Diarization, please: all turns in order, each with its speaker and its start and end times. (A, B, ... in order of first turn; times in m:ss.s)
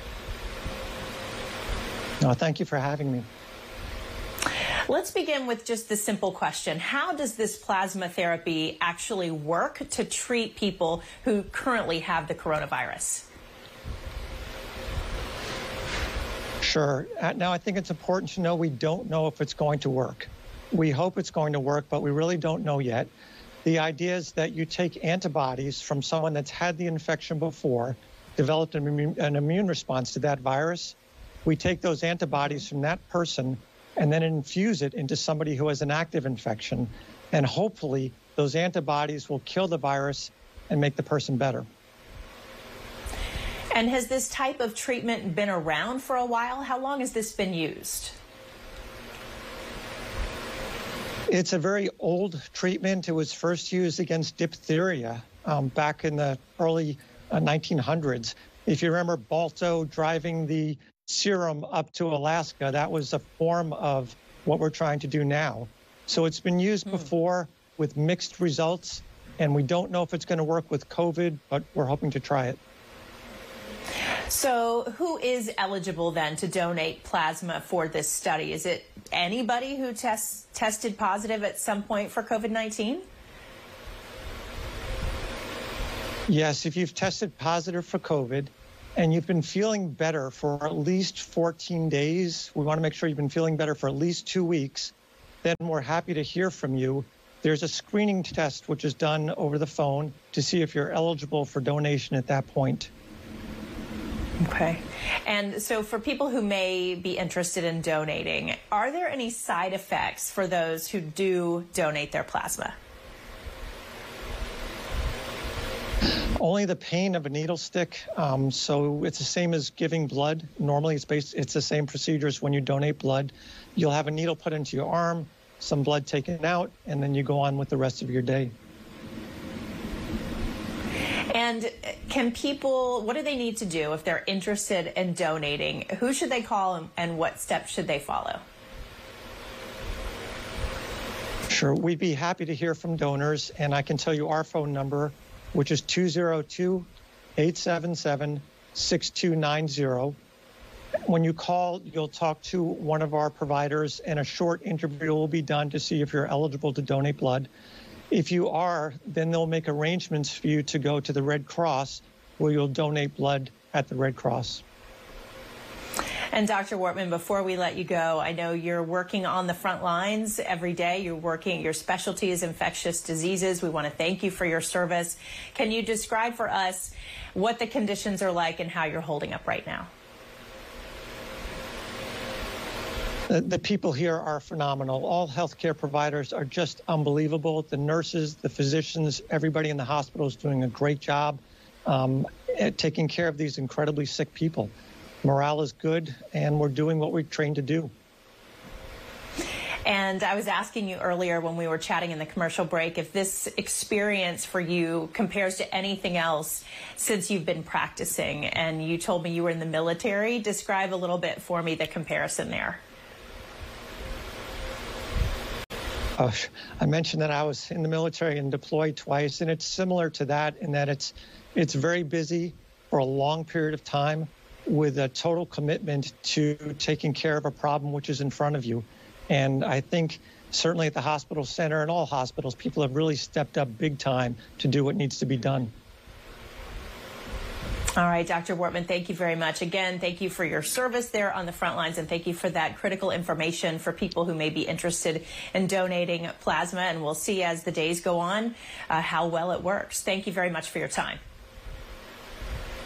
0:02.2-0:03.2 A
0:04.9-0:13.2 B
0:16.6-0:23.1 A
0:23.6-0:41.6 A
0:43.7-0:48.2 B
0:51.3-1:12.6 A
1:14.3-1:23.0 B
1:26.3-1:42.9 A
1:44.4-1:52.7 B
1:56.4-2:08.5 A
2:11.3-2:18.4 B
2:21.5-2:30.2 A
2:31.1-2:37.5 A
2:38.1-2:44.6 A
2:46.3-2:59.9 B
3:03.3-3:14.7 A
3:15.2-3:17.9 A
3:19.8-3:32.8 B
3:36.2-3:55.7 A
3:58.0-4:11.2 B